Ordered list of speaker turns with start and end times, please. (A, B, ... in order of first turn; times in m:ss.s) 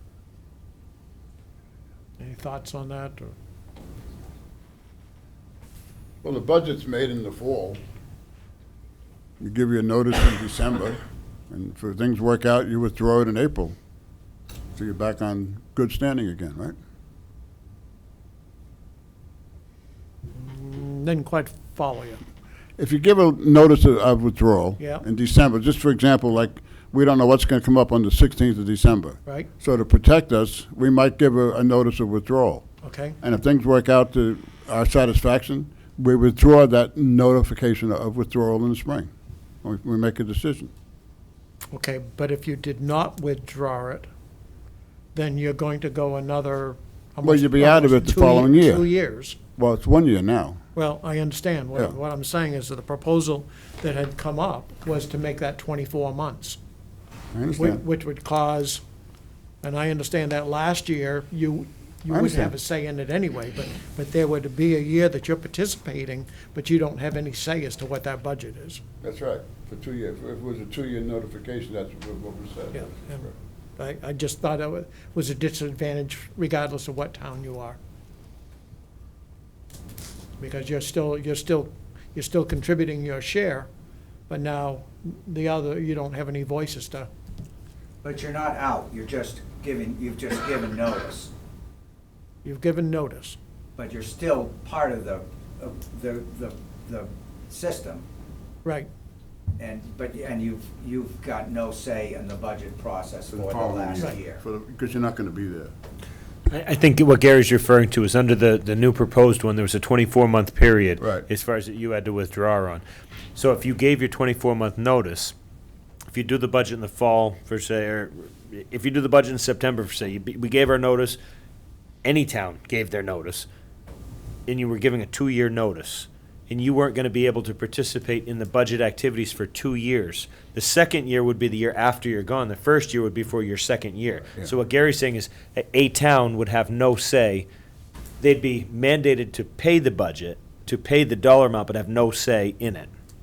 0:02.2-0:03.3 A
0:06.2-0:07.8 B
0:09.4-0:13.7 B
0:14.8-0:16.8 B
0:20.3-0:22.2 A
0:22.8-0:32.7 B
0:24.8-0:25.0 A
0:32.8-0:33.2 A
0:33.2-0:39.1 B
0:39.6-0:40.7 B
0:41.7-0:44.1 A
0:45.1-0:49.4 A
0:47.2-0:48.9 B
0:49.6-0:50.6 B
0:50.7-0:56.6 A
0:57.3-0:57.8 B
0:57.6-0:58.8 A
0:59.6-1:08.8 A
1:02.1-1:02.5 B
1:09.0-1:13.3 B
1:12.7-1:13.2 A
1:13.8-1:17.8 A
1:20.4-1:23.7 A
1:24.3-1:27.1 A
1:28.0-1:31.3 C
1:32.4-1:33.4 A
1:33.8-1:38.0 C
1:38.6-1:38.9 A
1:39.6-1:44.4 C
1:43.3-1:45.7 B
1:46.5-1:52.8 D
1:51.0-1:51.3 B
1:53.3-1:55.3 D
1:56.1-2:01.2 D
2:02.0-2:03.5 D
2:04.5-2:17.5 D
2:18.2-2:22.9 D